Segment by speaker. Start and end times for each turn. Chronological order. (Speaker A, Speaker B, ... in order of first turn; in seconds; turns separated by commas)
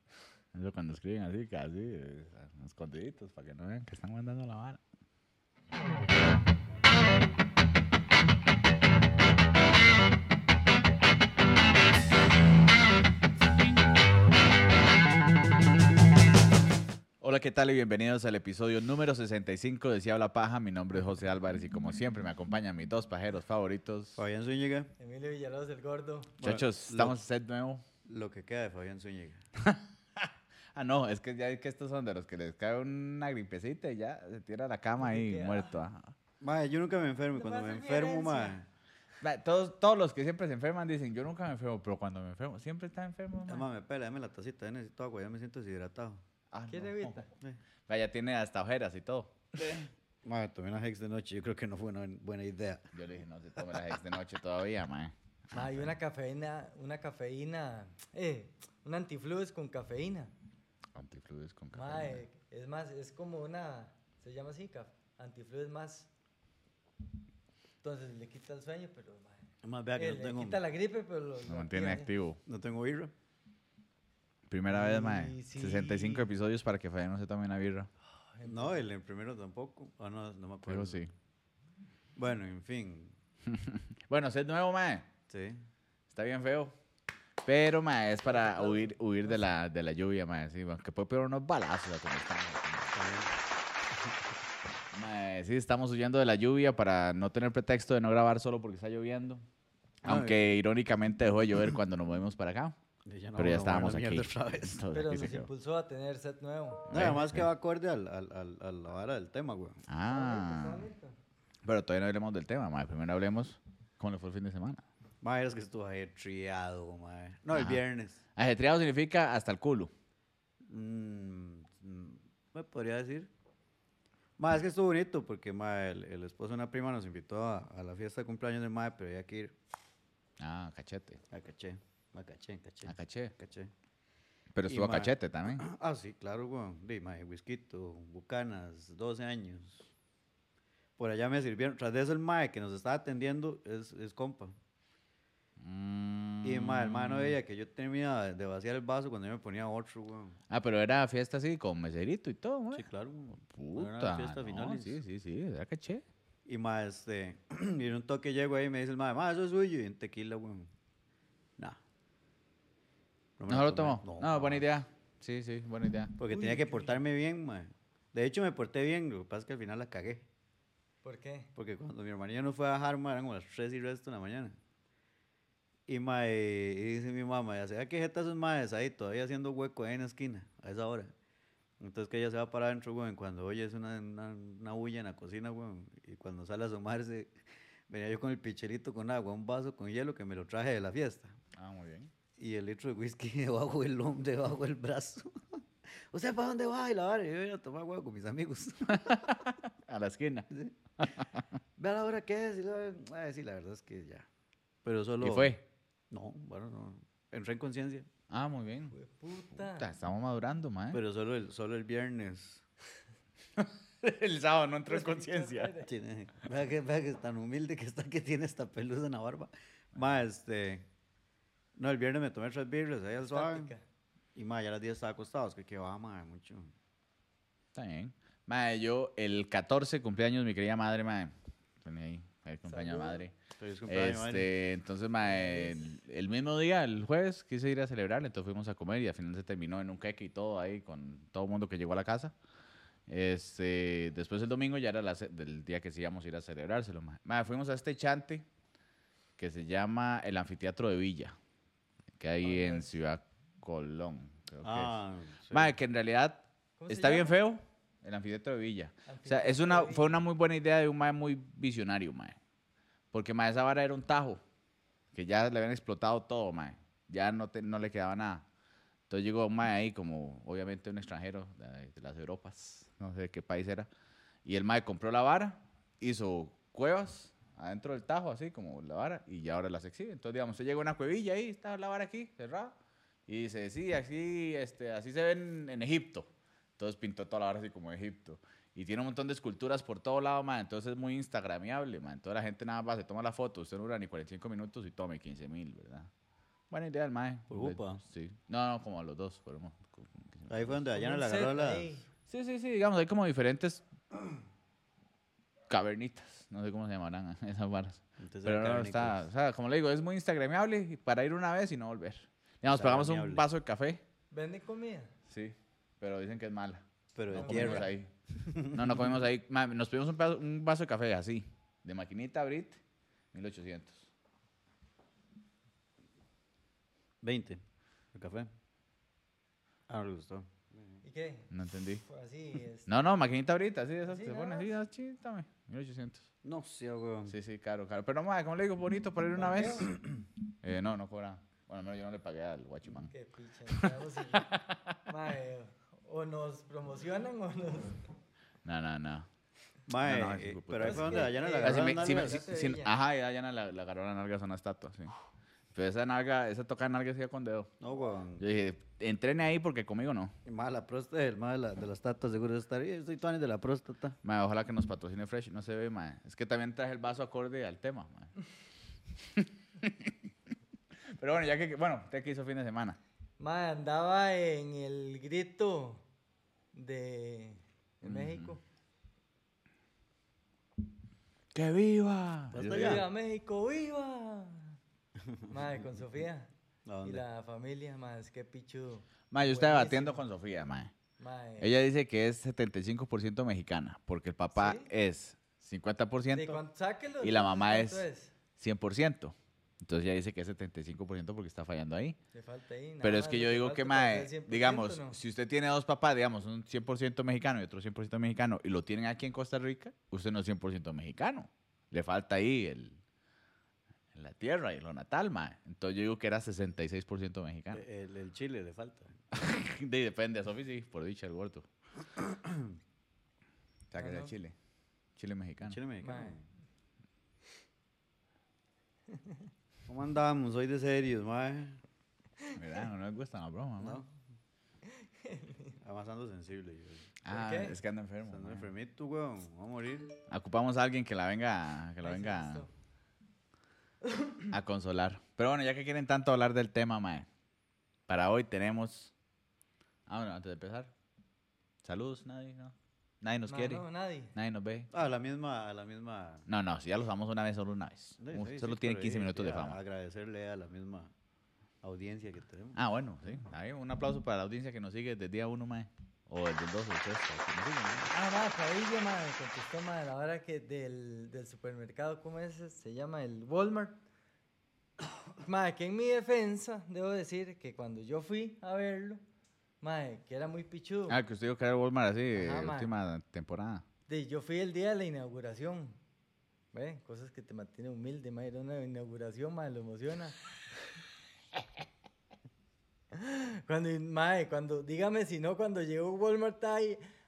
Speaker A: 0.5-4.8, Speaker A: 17.2-24.2, Speaker B: 24.2-24.9, Speaker C: 25.0-26.4, Speaker B: 26.4-27.2, Speaker A: 26.4-27.8, Speaker B: 28.1-29.4, Speaker A: 29.6-36.1, Speaker C: 35.0-35.8, Speaker B: 36.4-38.7, Speaker C: 37.4-38.6, Speaker A: 39.2-43.7, Speaker B: 43.5-46.2, Speaker A: 46.5-47.2, Speaker C: 46.7-47.3, Speaker A: 47.9-49.9, Speaker B: 49.6-52.9, Speaker A: 52.9-55.9, Speaker C: 55.5-60.3, Speaker A: 61.0-62.2, Speaker C: 61.7-66.1, Speaker C: 67.8-72.1, Speaker B: 69.6-70.6, Speaker A: 71.5-72.4, Speaker B: 72.5-73.1, Speaker A: 74.5-77.9, Speaker C: 74.7-76.3, Speaker C: 78.3-78.9, Speaker B: 78.4-81.0, Speaker A: 80.7-81.1, Speaker B: 82.2-83.2, Speaker A: 83.5-85.1, Speaker B: 85.3-85.6, Speaker A: 86.1-86.7, Speaker A: 87.5-93.0, Speaker C: 88.2-89.4, Speaker B: 92.9-93.3, Speaker A: 94.9-99.5, Speaker A: 100.0-102.8, Speaker B: 100.0-100.5, Speaker B: 103.0-105.5, Speaker A: 103.4-105.5, Speaker C: 104.9-106.9, Speaker A: 106.9-107.5, Speaker B: 106.9-109.8, Speaker A: 109.9-110.9, Speaker C: 110.1-111.2, Speaker A: 111.6-114.8, Speaker B: 115.2-118.2, Speaker A: 117.5-117.8, Speaker A: 118.3-119.9, Speaker B: 120.7-123.3, Speaker B: 124.4-129.6, Speaker A: 130.4-131.2, Speaker B: 131.3-133.7, Speaker A: 132.9-133.3, Speaker A: 134.6-135.6, Speaker B: 134.7-139.9, Speaker B: 141.0-144.6, Speaker A: 145.6-147.4, Speaker B: 146.4-150.4, Speaker A: 150.5-152.9, Speaker B: 152.7-155.0, Speaker A: 153.4-156.1, Speaker B: 156.5-160.7, Speaker B: 163.4-164.7, Speaker A: 163.5-166.1, Speaker B: 166.2-170.3, Speaker C: 166.3-167.0, Speaker C: 171.0-171.5, Speaker B: 171.6-174.6, Speaker B: 175.9-181.1, Speaker B: 181.8-191.4, Speaker A: 191.5-192.1, Speaker B: 192.4-199.4, Speaker A: 198.9-201.4, Speaker B: 200.5-201.1, Speaker B: 201.8-204.3, Speaker B: 204.8-205.6, Speaker A: 205.2-205.6, Speaker B: 206.1-208.1, Speaker A: 208.3-209.0, Speaker C: 208.9-209.9, Speaker A: 209.5-211.0, Speaker B: 210.9-212.6, Speaker A: 213.6-215.7, Speaker C: 214.9-215.9, Speaker B: 215.8-220.9, Speaker B: 221.8-223.7, Speaker C: 223.2-223.8, Speaker B: 224.3-226.7, Speaker A: 227.8-233.3, Speaker C: 232.7-233.2, Speaker B: 233.6-234.6, Speaker A: 233.9-242.3, Speaker B: 235.3-235.7, Speaker A: 243.1-248.4, Speaker A: 249.4-251.4, Speaker A: 252.2-255.0, Speaker C: 252.4-252.9, Speaker B: 254.6-255.8, Speaker A: 255.5-262.4, Speaker C: 256.8-257.4, Speaker C: 259.1-260.2, Speaker A: 263.1-264.4, Speaker A: 265.1-268.5, Speaker A: 269.1-273.9, Speaker A: 274.4-282.8, Speaker A: 283.3-296.1, Speaker A: 296.7-300.8, Speaker B: 297.5-298.0, Speaker B: 300.5-302.0, Speaker C: 300.9-302.1, Speaker A: 302.3-303.9, Speaker A: 305.7-314.0, Speaker B: 308.2-309.2, Speaker B: 312.7-313.5, Speaker C: 314.3-315.1, Speaker A: 315.3-322.8, Speaker B: 317.1-319.2, Speaker C: 317.4-317.9, Speaker A: 323.3-324.1, Speaker B: 327.2-327.6, Speaker B: 328.1-328.5, Speaker B: 329.9-331.0, Speaker C: 331.0-332.9, Speaker A: 331.5-332.0, Speaker A: 332.9-336.3, Speaker C: 334.1-334.7, Speaker B: 336.4-337.4, Speaker A: 337.3-339.9, Speaker C: 339.4-339.9, Speaker B: 339.9-340.1, Speaker A: 340.6-343.1, Speaker C: 343.1-344.5, Speaker A: 343.7-345.0, Speaker C: 345.1-348.1, Speaker A: 348.6-349.3, Speaker B: 349.9-352.5, Speaker A: 350.0-355.1, Speaker C: 350.8-352.9, Speaker A: 355.7-357.7, Speaker B: 357.8-358.4, Speaker A: 358.4-360.4, Speaker B: 360.4-364.2, Speaker A: 364.2-368.3, Speaker A: 369.3-370.1, Speaker A: 371.2-373.0, Speaker C: 373.4-376.0, Speaker C: 376.7-378.6, Speaker A: 378.0-378.6, Speaker A: 381.5-383.1, Speaker B: 382.5-383.1, Speaker C: 382.6-384.8, Speaker B: 385.2-385.8, Speaker C: 385.5-386.5, Speaker B: 386.9-387.2, Speaker C: 387.0-390.3, Speaker A: 389.3-390.9, Speaker C: 391.2-391.7, Speaker A: 391.6-396.6, Speaker C: 394.5-394.9, Speaker C: 396.3-398.3, Speaker A: 397.2-398.1, Speaker A: 398.6-402.2, Speaker C: 402.3-405.2, Speaker A: 403.0-413.0, Speaker A: 414.1-417.8, Speaker B: 417.7-419.2, Speaker A: 419.3-421.7, Speaker B: 422.2-422.8, Speaker A: 423.9-424.6, Speaker C: 424.0-424.3, Speaker A: 425.2-425.8, Speaker B: 425.6-426.5, Speaker C: 426.0-426.4, Speaker C: 429.1-429.4, Speaker B: 429.9-431.8, Speaker A: 432.5-434.0, Speaker B: 433.8-434.1, Speaker C: 434.9-435.8, Speaker B: 435.8-437.1, Speaker A: 437.2-438.7, Speaker C: 437.3-437.8, Speaker B: 438.2-440.1, Speaker A: 440.3-442.7, Speaker C: 442.0-442.7, Speaker C: 444.0-444.5, Speaker A: 444.5-447.3, Speaker A: 448.1-449.1, Speaker A: 450.1-450.9, Speaker A: 451.8-454.9, Speaker C: 453.5-454.3, Speaker B: 454.9-456.5, Speaker A: 456.5-459.8, Speaker B: 458.2-461.1, Speaker B: 461.8-462.8, Speaker A: 462.8-468.1, Speaker C: 468.1-474.0, Speaker C: 475.4-479.2, Speaker C: 479.8-481.2, Speaker A: 481.1-483.9, Speaker C: 482.4-482.9, Speaker C: 484.1-486.0, Speaker C: 486.7-490.5, Speaker C: 493.1-497.0